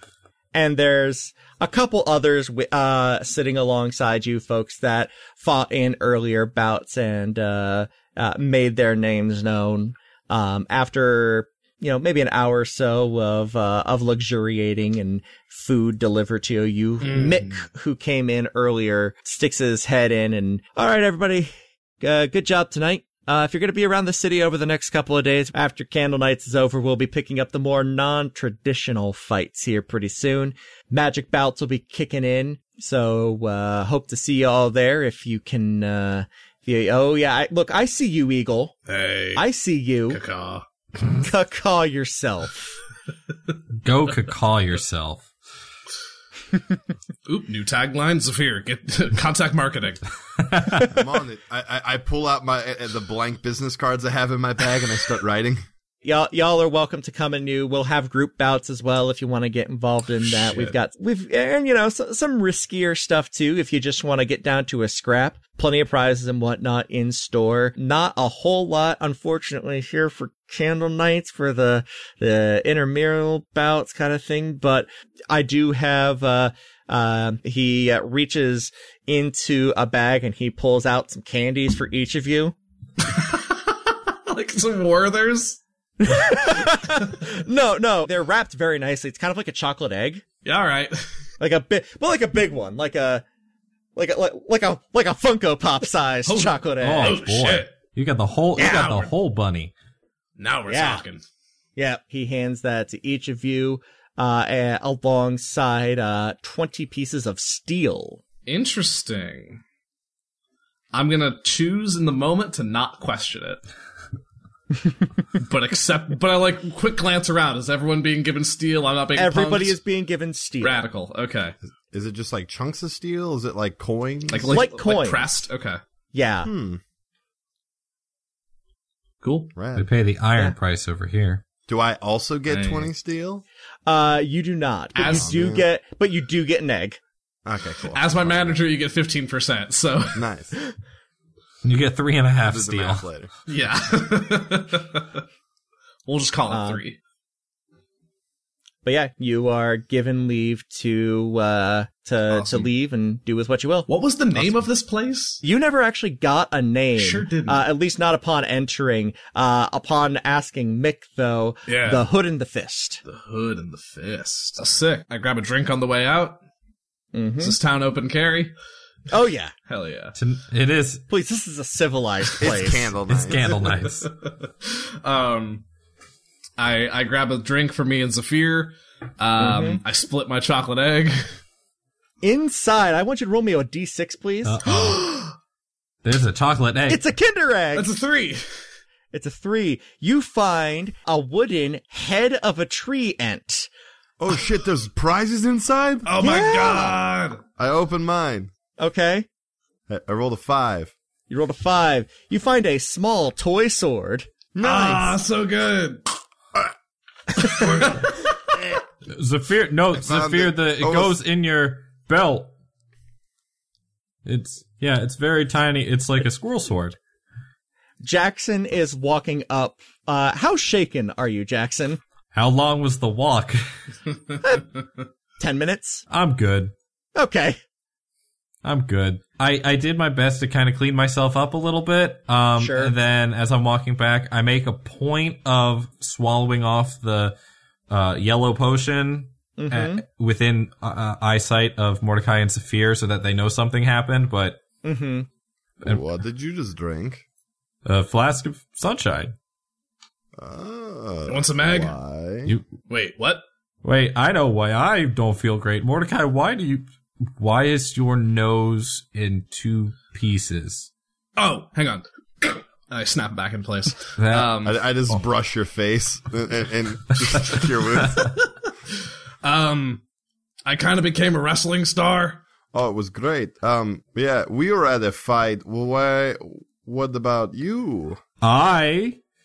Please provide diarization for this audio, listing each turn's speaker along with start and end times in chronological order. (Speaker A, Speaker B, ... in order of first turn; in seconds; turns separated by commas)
Speaker A: 0.5-38.7, Speaker B: 17.0-17.6, Speaker B: 38.9-39.4, Speaker A: 39.3-40.2, Speaker B: 40.1-41.1, Speaker A: 41.2-42.8, Speaker C: 43.8-45.3, Speaker B: 47.2-50.0, Speaker C: 50.4-50.9, Speaker D: 50.8-55.6, Speaker A: 56.0-82.5, Speaker B: 60.2-60.7, Speaker B: 83.0-85.6, Speaker A: 86.0-90.2, Speaker B: 90.4-91.0, Speaker A: 91.4-93.2, Speaker A: 94.0-97.3, Speaker B: 96.3-97.7, Speaker C: 96.8-99.7, Speaker B: 98.5-99.1, Speaker B: 100.4-101.2, Speaker A: 100.7-101.0, Speaker A: 101.8-108.2, Speaker B: 108.5-109.6, Speaker B: 110.9-113.6, Speaker B: 115.4-119.8, Speaker A: 119.1-120.8, Speaker B: 120.6-121.5, Speaker D: 121.9-124.7, Speaker B: 124.3-125.8, Speaker A: 124.5-125.3, Speaker A: 126.1-126.5, Speaker D: 126.4-126.8, Speaker B: 129.2-129.5, Speaker D: 129.5-129.8, Speaker C: 129.8-131.4, Speaker D: 131.7-133.4, Speaker B: 132.5-132.9, Speaker A: 133.9-137.0, Speaker B: 134.9-135.3, Speaker D: 135.0-135.7, Speaker D: 137.4-138.6, Speaker B: 137.9-140.2, Speaker D: 140.1-140.6, Speaker C: 141.6-143.0, Speaker D: 142.4-143.3, Speaker B: 143.5-145.2, Speaker B: 146.1-147.0, Speaker A: 146.5-146.8, Speaker A: 148.8-153.9, Speaker B: 152.3-152.7, Speaker B: 153.9-155.4, Speaker A: 155.4-163.0, Speaker B: 157.0-157.6, Speaker B: 161.7-162.1, Speaker B: 163.0-166.4, Speaker A: 167.1-167.6, Speaker B: 167.4-168.5, Speaker A: 169.1-169.5, Speaker B: 169.7-170.2, Speaker C: 170.2-171.0, Speaker A: 171.1-172.9, Speaker D: 172.4-173.7, Speaker C: 173.0-174.1, Speaker B: 173.6-175.6, Speaker B: 176.6-181.2, Speaker A: 179.4-179.8, Speaker A: 182.2-185.0, Speaker C: 184.4-185.1, Speaker C: 186.0-187.0, Speaker A: 186.9-187.9, Speaker B: 187.7-188.4, Speaker A: 189.1-193.7, Speaker D: 194.2-196.1, Speaker B: 196.1-197.4, Speaker A: 196.2-197.0, Speaker D: 197.6-198.5, Speaker A: 198.8-199.3, Speaker D: 199.9-200.9, Speaker A: 201.3-205.2, Speaker D: 204.6-205.0, Speaker B: 204.6-206.0, Speaker B: 207.4-208.2, Speaker C: 209.1-212.5, Speaker D: 209.9-211.1, Speaker C: 214.2-217.0, Speaker A: 218.0-222.0, Speaker C: 222.3-223.7, Speaker A: 225.4-226.1, Speaker C: 226.1-226.7, Speaker A: 227.1-227.6, Speaker C: 228.6-237.4, Speaker A: 232.6-232.9, Speaker C: 237.9-244.6, Speaker A: 239.6-240.0, Speaker A: 244.8-245.3, Speaker D: 245.8-247.2, Speaker C: 247.8-249.3, Speaker D: 250.4-252.5, Speaker B: 251.3-251.9, Speaker B: 252.9-253.4, Speaker C: 253.8-256.9, Speaker C: 257.4-260.9, Speaker B: 261.4-264.8, Speaker C: 264.2-264.5, Speaker D: 264.6-268.4, Speaker B: 267.5-268.5, Speaker B: 269.4-270.0, Speaker B: 270.6-272.4, Speaker D: 272.7-278.2, Speaker C: 278.4-279.2